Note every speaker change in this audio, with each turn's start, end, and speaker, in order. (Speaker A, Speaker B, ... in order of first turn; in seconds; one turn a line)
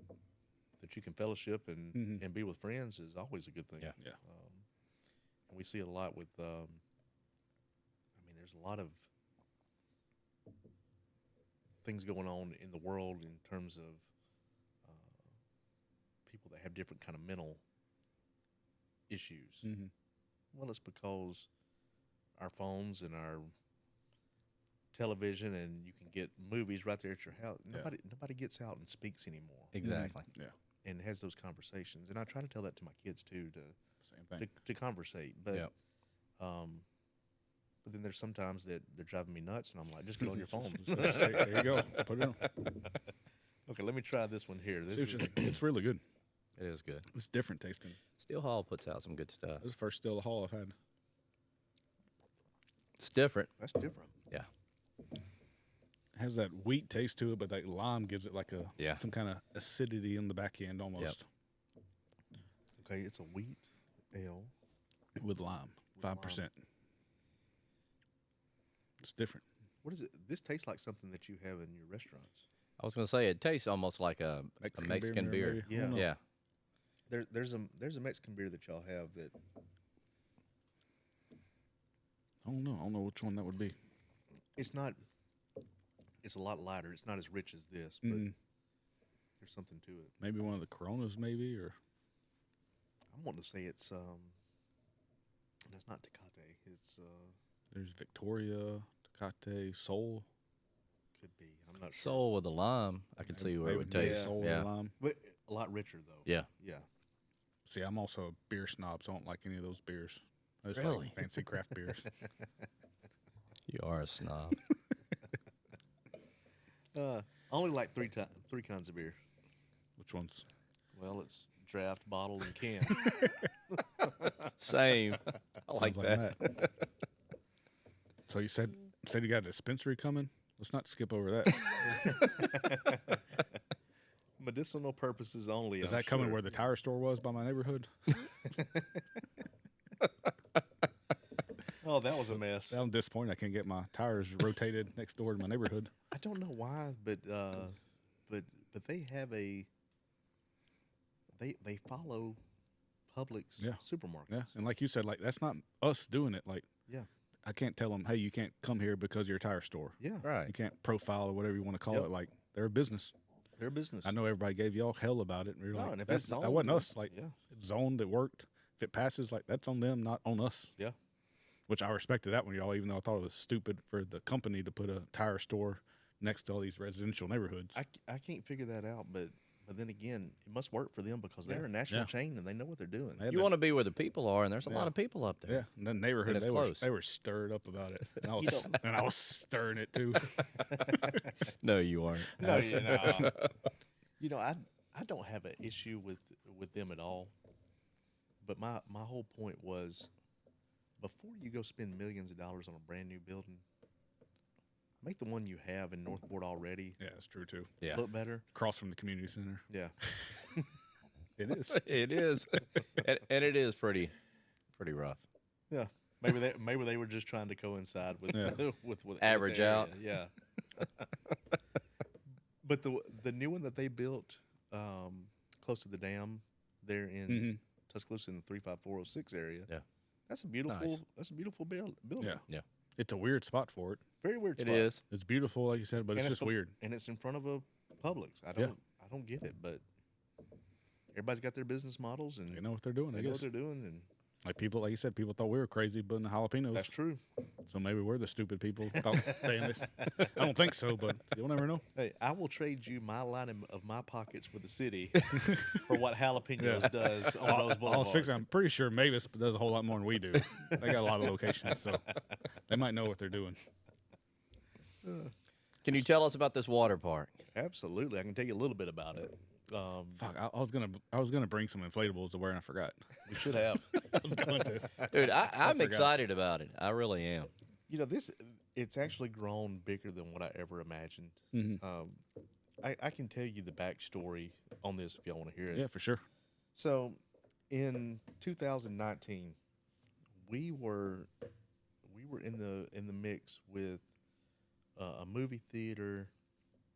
Speaker A: 0.8-4.6
Speaker B: 1.9-2.2
Speaker A: 5.5-6.8
Speaker A: 8.2-9.1
Speaker A: 11.8-14.1
Speaker A: 14.8-15.2
Speaker A: 16.3-17.6
Speaker A: 19.1-19.7
Speaker B: 19.6-19.9
Speaker A: 20.5-21.5
Speaker A: 22.4-23.5
Speaker A: 24.9-29.7
Speaker C: 29.7-30.2
Speaker B: 29.8-30.5
Speaker A: 30.8-33.8
Speaker B: 34.0-34.5
Speaker A: 34.4-35.7
Speaker A: 36.4-36.8
Speaker A: 37.8-42.8
Speaker B: 40.2-42.6
Speaker A: 43.7-45.5
Speaker B: 44.9-46.0
Speaker C: 46.6-47.0
Speaker B: 47.1-48.0
Speaker C: 48.2-49.6
Speaker B: 49.6-50.7
Speaker C: 53.0-53.5
Speaker A: 53.6-54.1
Speaker B: 56.1-61.2
Speaker A: 62.8-64.5
Speaker B: 65.2-66.5
Speaker A: 66.0-66.5
Speaker B: 69.0-69.4
Speaker A: 69.8-72.5
Speaker C: 72.8-76.2
Speaker B: 74.6-76.1
Speaker A: 75.7-76.1
Speaker A: 77.1-79.3
Speaker B: 82.4-83.7
Speaker A: 84.5-85.0
Speaker A: 86.2-88.3
Speaker B: 88.0-88.3
Speaker A: 89.4-90.1
Speaker B: 90.2-91.8
Speaker A: 93.1-94.3
Speaker A: 95.7-97.3
Speaker B: 97.7-100.2
Speaker A: 101.2-102.2
Speaker C: 101.9-104.7
Speaker B: 103.3-104.9
Speaker A: 103.9-104.4
Speaker A: 105.0-106.8
Speaker B: 107.7-112.0
Speaker C: 110.7-111.2
Speaker C: 113.7-114.6
Speaker A: 116.9-119.2
Speaker B: 120.0-120.4
Speaker A: 120.9-123.3
Speaker A: 124.0-124.5
Speaker C: 124.6-126.7
Speaker B: 125.7-126.6
Speaker B: 128.3-132.1
Speaker A: 131.8-133.2
Speaker A: 134.4-136.5
Speaker B: 135.8-138.2
Speaker A: 138.5-139.0
Speaker A: 141.8-142.8
Speaker B: 142.7-145.9
Speaker A: 146.1-147.8
Speaker A: 148.3-149.7
Speaker A: 151.4-152.4
Speaker A: 153.1-154.5
Speaker B: 153.6-156.7
Speaker B: 157.4-163.1
Speaker A: 160.0-160.2
Speaker C: 160.2-160.5
Speaker A: 163.6-164.2
Speaker B: 164.0-170.7
Speaker A: 165.7-167.3
Speaker B: 171.7-177.8
Speaker A: 177.7-183.3
Speaker B: 183.2-183.6
Speaker C: 183.3-185.6
Speaker B: 185.4-191.2
Speaker C: 186.2-186.9
Speaker A: 188.4-188.7
Speaker A: 190.7-191.2
Speaker C: 191.6-193.5
Speaker A: 192.4-193.4
Speaker B: 192.4-193.3
Speaker A: 194.2-197.3
Speaker A: 198.4-200.1
Speaker A: 201.0-203.6
Speaker A: 205.0-207.0
Speaker B: 207.0-207.9
Speaker A: 207.8-208.4
Speaker B: 208.5-210.4
Speaker A: 209.7-210.7
Speaker B: 211.4-211.8
Speaker C: 211.7-214.1
Speaker C: 214.8-215.2
Speaker A: 215.7-221.0
Speaker B: 218.3-218.6
Speaker C: 219.2-219.9
Speaker A: 222.6-229.7
Speaker B: 227.3-227.6
Speaker A: 230.3-232.4
Speaker C: 230.7-231.0
Speaker B: 233.0-234.0
Speaker A: 234.2-234.9
Speaker C: 234.6-235.0
Speaker B: 235.1-236.7
Speaker A: 236.1-239.8
Speaker A: 241.1-244.1
Speaker B: 242.5-243.5
Speaker B: 244.4-246.9
Speaker A: 246.7-247.2
Speaker B: 247.7-251.8
Speaker A: 248.9-250.3
Speaker A: 251.9-258.4
Speaker B: 255.3-255.9
Speaker B: 256.6-263.6
Speaker A: 265.0-265.3
Speaker C: 265.8-267.3
Speaker A: 267.5-270.2
Speaker B: 270.2-275.0
Speaker A: 273.2-275.0
Speaker C: 275.0-277.5
Speaker B: 275.6-276.1
Speaker A: 277.9-282.2
Speaker B: 281.5-281.8
Speaker A: 282.8-285.9
Speaker B: 285.7-286.2
Speaker A: 286.7-289.6
Speaker A: 290.4-291.3
Speaker A: 292.0-294.1
Speaker A: 294.9-296.3